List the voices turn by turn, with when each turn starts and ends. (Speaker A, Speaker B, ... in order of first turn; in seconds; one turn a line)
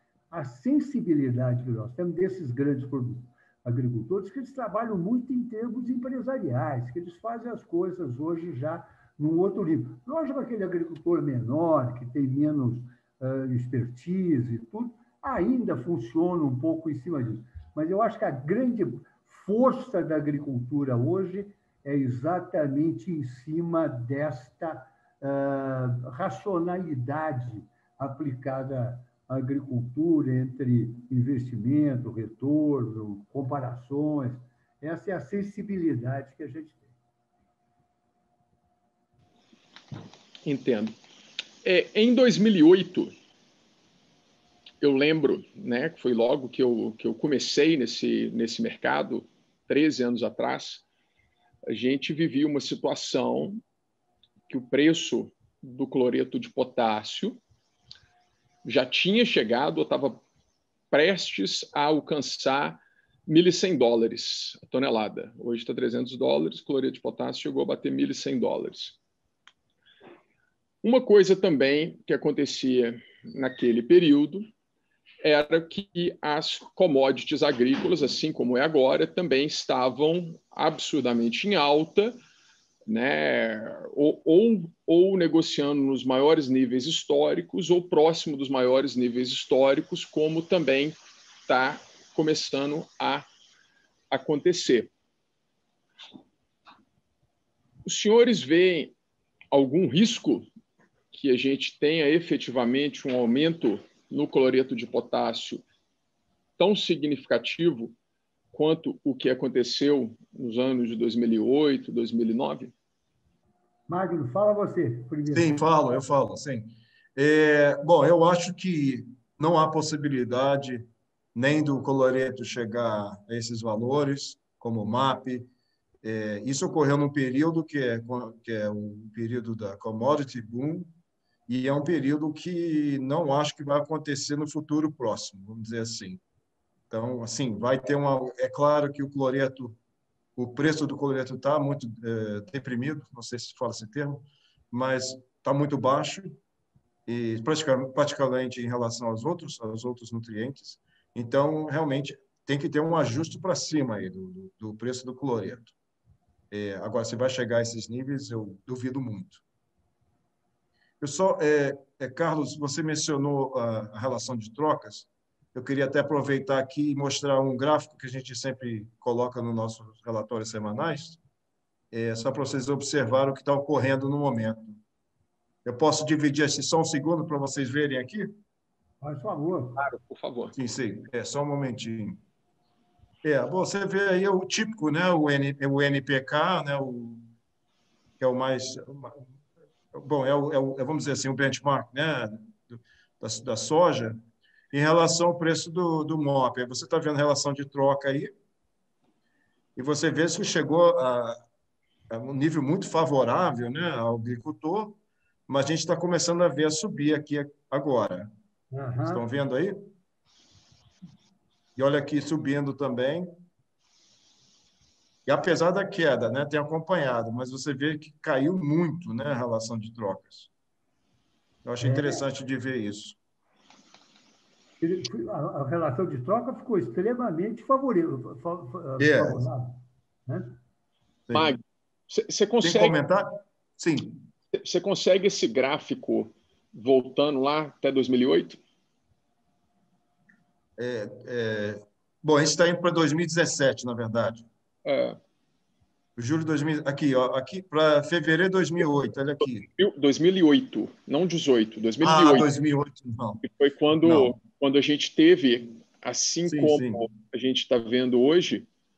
Speaker A: 0.3-36.9
Speaker B: 40.5-41.0
Speaker B: 41.6-43.1
Speaker B: 44.8-50.8
Speaker B: 51.7-53.6
Speaker B: 54.5-57.4
Speaker B: 58.6-60.2
Speaker B: 60.9-69.0
Speaker B: 70.8-74.5
Speaker B: 75.2-82.2
Speaker B: 82.9-91.0
Speaker B: 91.5-93.3
Speaker B: 94.1-94.9
Speaker B: 97.8-99.0
Speaker B: 99.5-100.5
Speaker B: 101.1-105.7
Speaker B: 106.6-108.0
Speaker B: 108.5-112.7
Speaker A: 113.9-115.6
Speaker C: 115.3-125.5
Speaker C: 126.0-130.9
Speaker C: 131.5-136.2
Speaker C: 136.9-139.8
Speaker C: 140.4-146.4
Speaker C: 147.1-155.7
Speaker C: 156.5-159.4
Speaker C: 161.0-171.2
Speaker C: 171.9-174.8
Speaker C: 175.7-178.4
Speaker A: 179.0-179.8
Speaker B: 179.8-180.6
Speaker C: 180.6-182.2
Speaker C: 183.2-187.2
Speaker C: 188.2-189.2
Speaker C: 189.9-194.2
Speaker C: 194.7-198.3
Speaker C: 199.8-201.4
Speaker C: 202.1-208.3
Speaker A: 208.7-209.2
Speaker C: 209.1-209.9
Speaker C: 211.8-213.3
Speaker C: 215.3-220.5
Speaker C: 221.7-223.2
Speaker A: 221.8-222.2
Speaker A: 224.8-230.6
Speaker C: 229.0-229.4
Speaker C: 231.3-231.5
Speaker B: 231.3-233.0
Speaker C: 232.6-234.2
Speaker B: 234.5-238.6
Speaker C: 240.8-244.5
Speaker B: 244.8-245.2
Speaker C: 246.2-249.7
Speaker B: 249.7-252.5
Speaker C: 252.0-253.4
Speaker B: 253.4-258.7
Speaker C: 254.0-254.3
Speaker C: 256.5-257.1